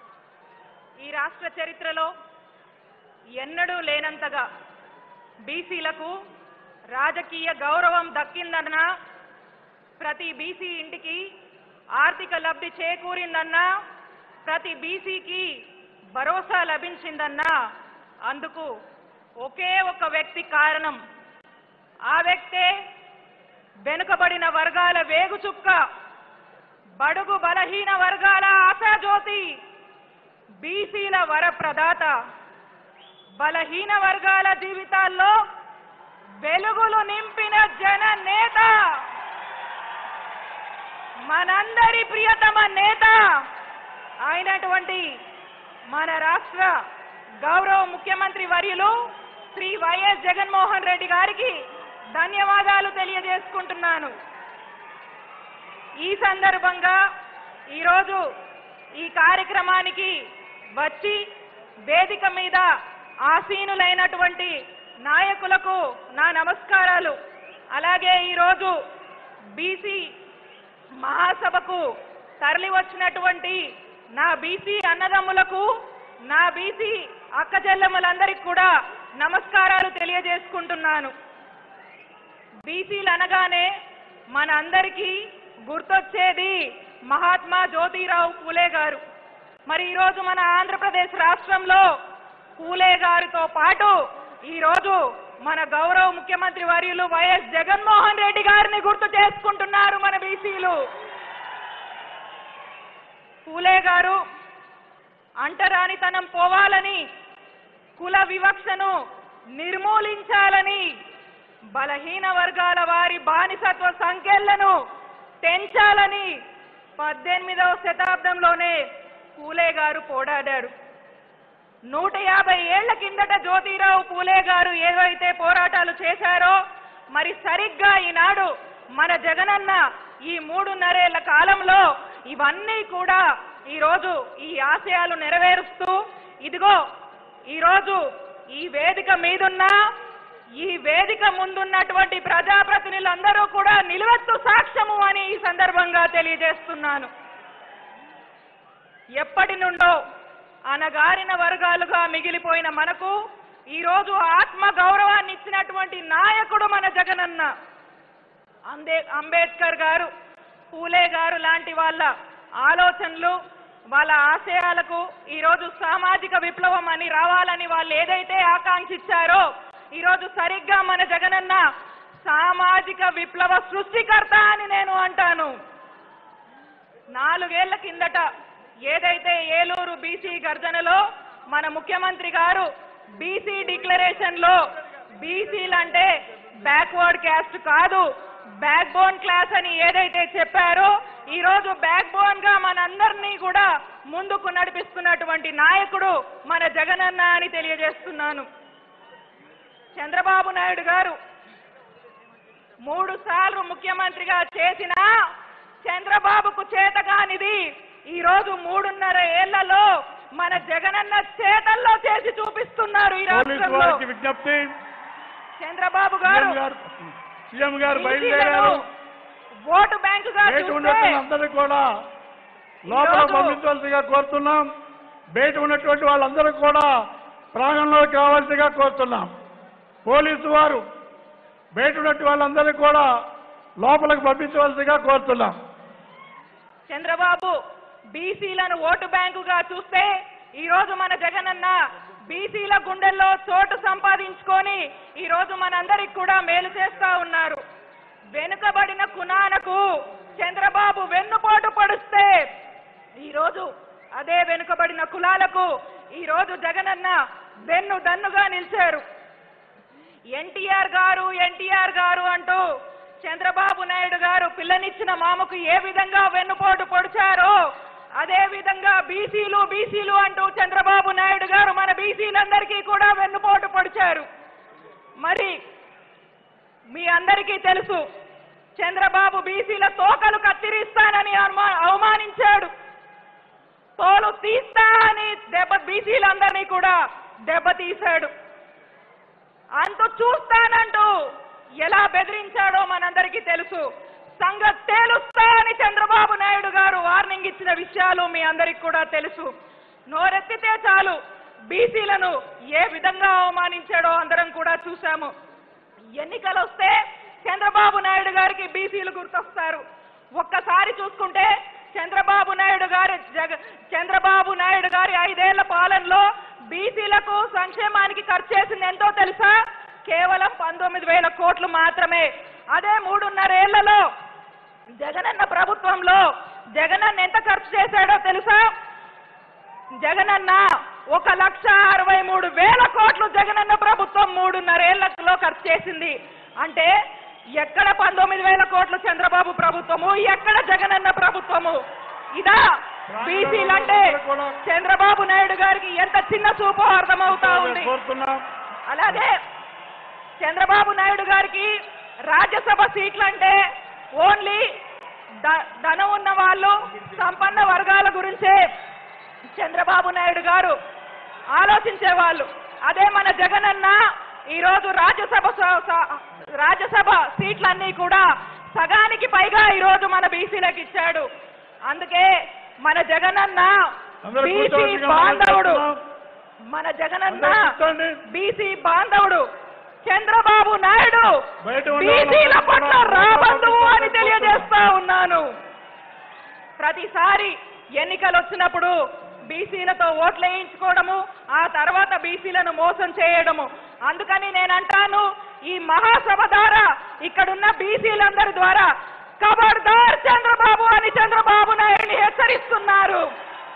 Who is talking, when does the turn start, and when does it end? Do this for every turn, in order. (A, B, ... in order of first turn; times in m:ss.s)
0:01.0-0:02.1 A
0:03.4-0:04.5 A
0:05.4-0:06.2 A
0:06.9-0:08.9 A
0:10.0-0:11.3 A
0:12.0-0:13.7 A
0:14.4-0:15.5 A
0:16.2-0:17.5 A
0:18.3-0:18.7 A
0:19.4-0:21.0 A
0:22.1-0:22.7 A
0:23.8-0:25.8 A
0:27.0-0:29.5 A
0:30.6-0:32.1 A
0:33.4-0:35.4 A
0:36.4-0:38.8 A
0:41.3-0:43.2 A
0:44.2-0:45.1 A
0:45.9-0:46.7 A
0:47.4-0:48.9 A
0:49.5-0:51.6 A
0:52.2-0:54.1 A
0:56.0-0:57.0 A
0:57.7-0:58.2 A
0:59.0-1:00.1 A
1:00.8-1:01.2 A
1:01.9-1:02.7 A
1:03.3-1:04.5 A
1:05.0-1:07.2 A
1:07.8-1:08.8 A
1:09.6-1:10.0 A
1:11.0-1:11.8 A
1:12.4-1:13.6 A
1:14.2-1:15.7 A
1:16.3-1:21.1 A
1:22.7-1:23.7 A
1:24.3-1:25.1 A
1:25.7-1:29.0 A
1:29.7-1:31.9 A
1:32.6-1:34.0 A
1:34.5-1:40.8 A
1:43.5-1:44.2 A
1:45.4-1:47.0 A
1:48.0-1:49.0 A
1:49.6-1:50.9 A
1:51.8-1:54.8 A
1:55.4-1:56.3 A
1:57.0-1:58.8 A
1:59.4-2:00.7 A
2:01.9-2:06.6 A
2:07.1-2:16.8 A
2:17.5-2:19.7 A
2:20.6-2:27.1 A
2:29.2-2:30.0 A
2:30.7-2:33.2 A
2:33.7-2:37.5 A
2:38.7-2:40.1 A
2:40.7-2:42.1 A
2:42.6-2:43.4 A
2:43.9-2:51.6 A
2:52.2-2:55.5 A
2:57.1-2:58.3 A
2:58.9-3:04.6 A
3:05.2-3:08.1 A
3:08.6-3:18.5 A
3:20.0-3:21.2 A
3:22.8-3:25.1 A
3:25.8-3:34.0 A
3:33.3-3:34.7 B
3:35.6-3:36.6 A
3:36.2-3:38.8 B
3:37.9-3:38.8 A
3:39.7-3:41.2 A
3:40.4-3:41.9 B
3:42.9-3:44.7 B
3:42.9-3:43.6 A
3:45.4-3:46.9 B
3:47.5-3:49.3 B
3:50.1-3:50.8 B
3:51.8-3:53.1 B
3:53.8-3:55.6 B
3:56.9-3:57.6 A
3:58.1-4:01.8 A
4:02.3-4:07.6 A
4:08.3-4:12.4 A
4:13.2-4:19.0 A
4:20.4-4:22.6 A
4:23.2-4:27.6 A
4:28.2-4:34.3 A
4:35.2-4:35.5 A
4:36.9-4:38.0 A
4:38.8-4:42.7 A
4:44.0-4:47.0 A
4:47.5-4:48.3 A
4:49.8-4:51.1 A
4:51.8-4:53.9 A
4:54.4-4:59.5 A
5:00.1-5:01.2 A
5:01.7-5:05.3 A
5:06.2-5:09.8 A
5:10.4-5:24.0 A
5:25.0-5:28.7 A
5:30.0-5:36.9 A
5:37.6-5:41.8 A
5:42.4-5:42.7 A
5:43.1-5:44.6 B
5:43.2-5:47.9 A
5:47.3-5:48.4 B
5:48.9-5:49.4 A
5:50.4-5:51.7 A
5:52.3-5:53.6 A
5:54.2-5:54.7 A
5:55.4-5:58.6 A
5:59.6-6:00.8 A
6:01.5-6:04.0 A
6:04.5-6:11.3 A
6:11.9-6:12.3 A
6:12.8-6:13.9 A
6:14.3-6:16.0 B
6:14.4-6:15.8 A
6:16.7-6:17.7 A
6:17.3-6:18.2 B
6:18.3-6:19.4 A
6:20.0-6:21.3 A
6:21.6-6:24.7 B
6:22.0-6:25.4 A
6:26.8-6:29.0 A
6:29.5-6:38.9 A
6:39.4-6:43.2 A